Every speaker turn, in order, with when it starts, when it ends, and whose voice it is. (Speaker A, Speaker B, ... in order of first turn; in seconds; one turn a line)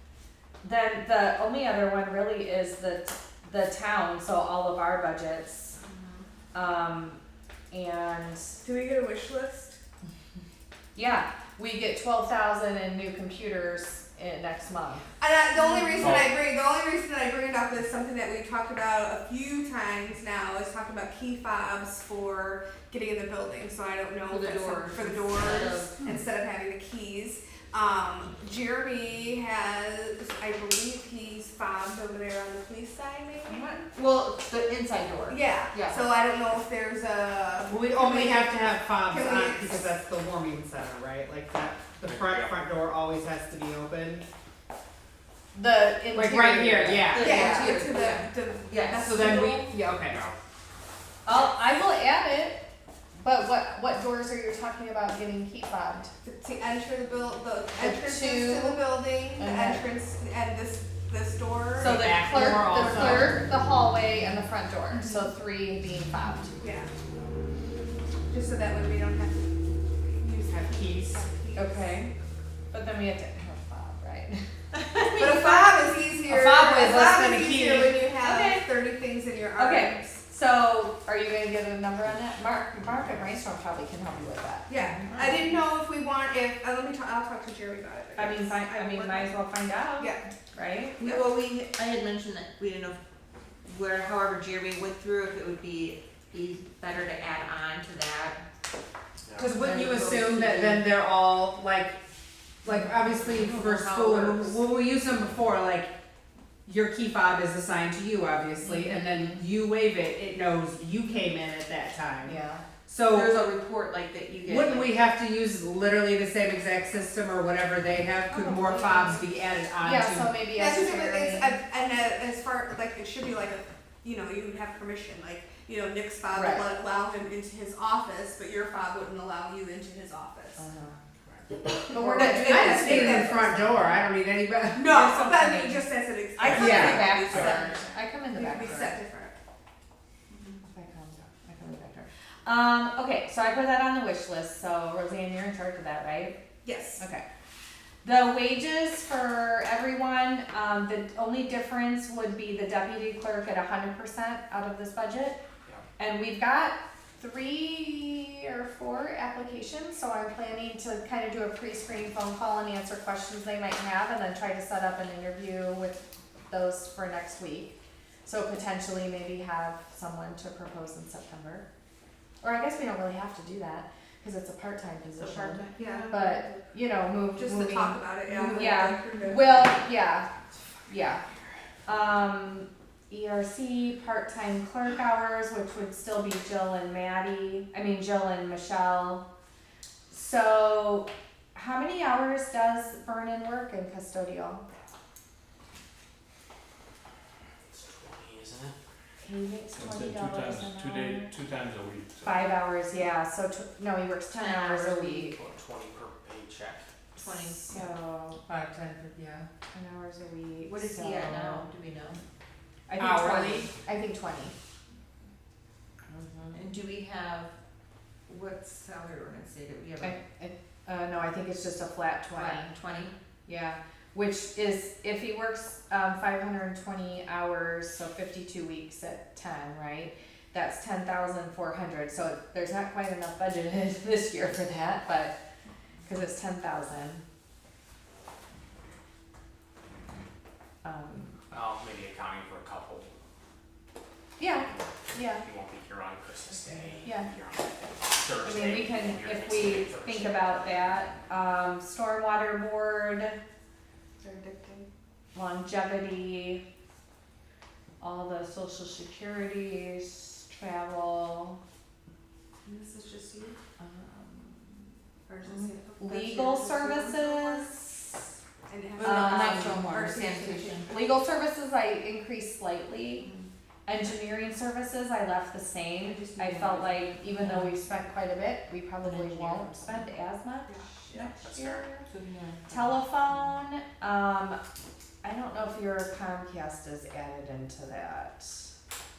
Speaker A: 0.6-5.8
Speaker B: 5.9-6.2
Speaker A: 6.5-7.2
Speaker A: 7.7-8.6
Speaker B: 8.6-9.8
Speaker A: 10.9-15.0
Speaker B: 15.2-33.9
Speaker C: 16.0-16.3
Speaker D: 24.3-26.0
Speaker D: 33.5-36.1
Speaker B: 35.3-39.9
Speaker E: 37.7-44.3
Speaker C: 42.0-42.6
Speaker A: 45.5-47.8
Speaker E: 46.1-47.5
Speaker D: 47.1-49.3
Speaker B: 47.2-49.7
Speaker E: 49.0-50.3
Speaker C: 49.9-50.3
Speaker A: 51.3-52.6
Speaker A: 53.2-56.1
Speaker B: 56.2-63.3
Speaker A: 57.8-59.9
Speaker A: 61.8-66.5
Speaker E: 61.8-63.5
Speaker B: 66.6-66.9
Speaker B: 68.3-69.6
Speaker B: 70.1-71.8
Speaker E: 70.5-71.2
Speaker A: 71.5-72.1
Speaker A: 72.7-74.4
Speaker D: 74.9-75.6
Speaker B: 75.1-80.2
Speaker E: 76.2-78.1
Speaker A: 78.2-78.7
Speaker A: 79.6-85.3
Speaker B: 84.7-89.4
Speaker A: 88.2-91.2
Speaker B: 90.0-90.2
Speaker D: 91.0-93.0
Speaker D: 93.6-98.4
Speaker E: 99.4-102.0
Speaker D: 99.4-100.9
Speaker E: 102.6-105.9
Speaker D: 102.9-104.6
Speaker E: 106.7-113.5
Speaker D: 108.6-109.4
Speaker A: 112.2-112.6
Speaker D: 113.0-115.0
Speaker E: 114.5-120.3
Speaker A: 118.3-119.2
Speaker A: 119.8-121.6
Speaker B: 120.5-130.6
Speaker A: 126.3-126.7
Speaker A: 130.6-130.9
Speaker B: 131.8-133.4
Speaker A: 131.9-134.1
Speaker E: 132.0-134.9
Speaker B: 134.7-139.3
Speaker A: 134.9-139.0
Speaker E: 136.5-137.2
Speaker A: 140.7-146.4
Speaker B: 146.6-147.0
Speaker A: 147.0-147.2
Speaker A: 148.0-155.4
Speaker A: 156.0-171.7
Speaker A: 172.4-180.3
Speaker D: 175.2-176.3
Speaker B: 175.8-176.6
Speaker B: 177.3-179.8
Speaker A: 180.9-181.2
Speaker A: 181.8-189.2
Speaker A: 190.1-194.6
Speaker C: 197.7-198.8
Speaker A: 199.2-201.3
Speaker F: 199.8-202.1
Speaker A: 202.2-205.3
Speaker D: 204.3-205.3
Speaker C: 205.2-206.8
Speaker D: 207.2-207.8
Speaker A: 207.2-208.4
Speaker E: 208.5-209.4
Speaker D: 209.0-209.5
Speaker A: 209.7-211.7
Speaker D: 210.7-212.2
Speaker A: 212.9-214.5
Speaker E: 212.9-213.7
Speaker A: 216.1-216.6
Speaker D: 216.5-217.5
Speaker D: 218.3-220.2
Speaker A: 220.0-222.7
Speaker D: 222.3-223.2
Speaker A: 223.5-235.3
Speaker A: 236.1-237.2
Speaker A: 240.8-241.4
Speaker C: 241.5-243.1
Speaker A: 244.4-245.4
Speaker C: 244.6-250.9
Speaker A: 247.0-247.3
Speaker A: 248.4-253.4
Speaker B: 254.2-254.9
Speaker A: 255.3-256.6
Speaker A: 258.0-261.6
Speaker B: 262.6-263.6
Speaker A: 263.8-264.6
Speaker B: 265.3-267.7
Speaker D: 265.4-265.8
Speaker A: 266.0-268.2
Speaker B: 268.7-271.0
Speaker D: 269.0-270.9
Speaker A: 269.0-270.0
Speaker A: 270.9-273.3
Speaker D: 273.2-273.5
Speaker A: 273.9-282.1
Speaker D: 276.0-277.8
Speaker D: 279.0-280.1
Speaker C: 281.4-281.9
Speaker D: 282.1-283.6
Speaker A: 282.7-284.6
Speaker A: 285.2-288.7